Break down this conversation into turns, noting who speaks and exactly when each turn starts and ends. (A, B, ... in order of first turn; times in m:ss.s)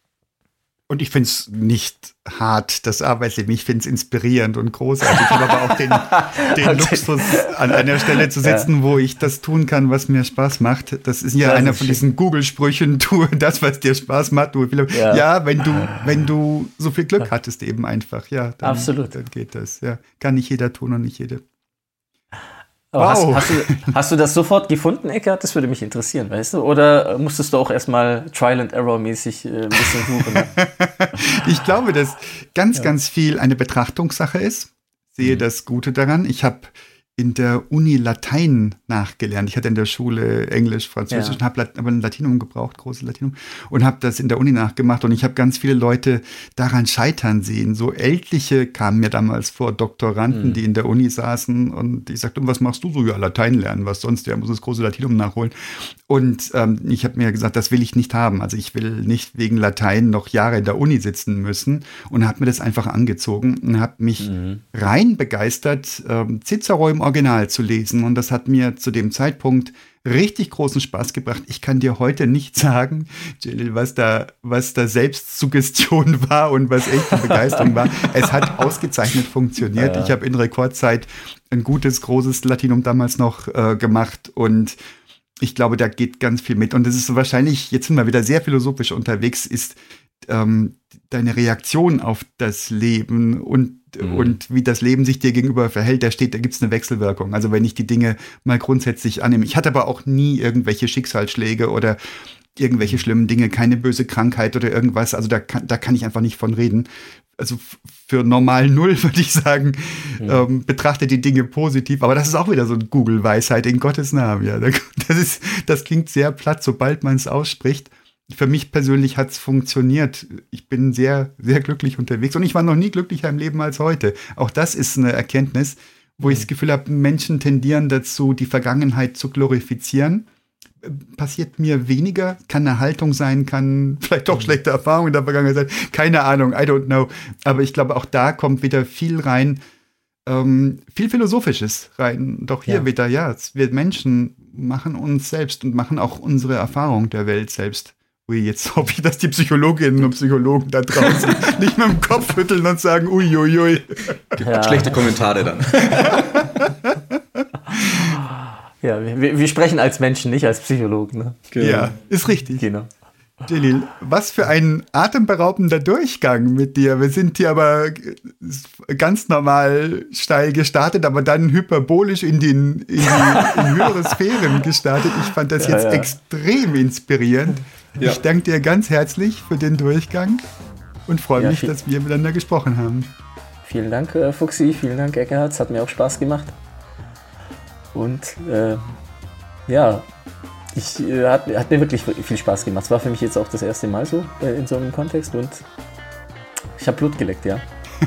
0:00.9-0:21.4 A
0:05.1-0:08.7 B
0:11.4-0:12.0 B
0:14.9-0:15.2 B
0:18.6-0:19.2 B
0:22.9-0:30.5 B
0:23.0-0:23.9 A
0:30.6-1:24.8 A
0:41.1-0:41.4 B
0:50.3-0:50.6 B
1:04.2-1:04.6 B
1:19.8-1:20.2 B
1:25.4-1:42.0 A
1:42.6-2:10.3 A
1:50.2-1:50.4 B
2:10.8-2:19.6 A
2:20.2-2:34.4 A
2:34.4-2:36.3 C
2:34.4-2:35.0 B
2:36.0-2:38.0 A
2:37.8-2:41.4 B
2:41.5-2:41.9 C
2:41.6-2:42.6 A
2:42.6-2:42.9 B
2:43.4-3:00.4 A
2:53.1-2:54.1 B
2:55.6-2:56.2 B
3:01.1-3:03.1 A
3:01.4-3:01.7 B
3:03.6-3:06.6 B
3:07.9-3:08.8 B
3:09.7-3:10.0 B
3:10.7-3:15.6 B
3:16.8-3:17.6 B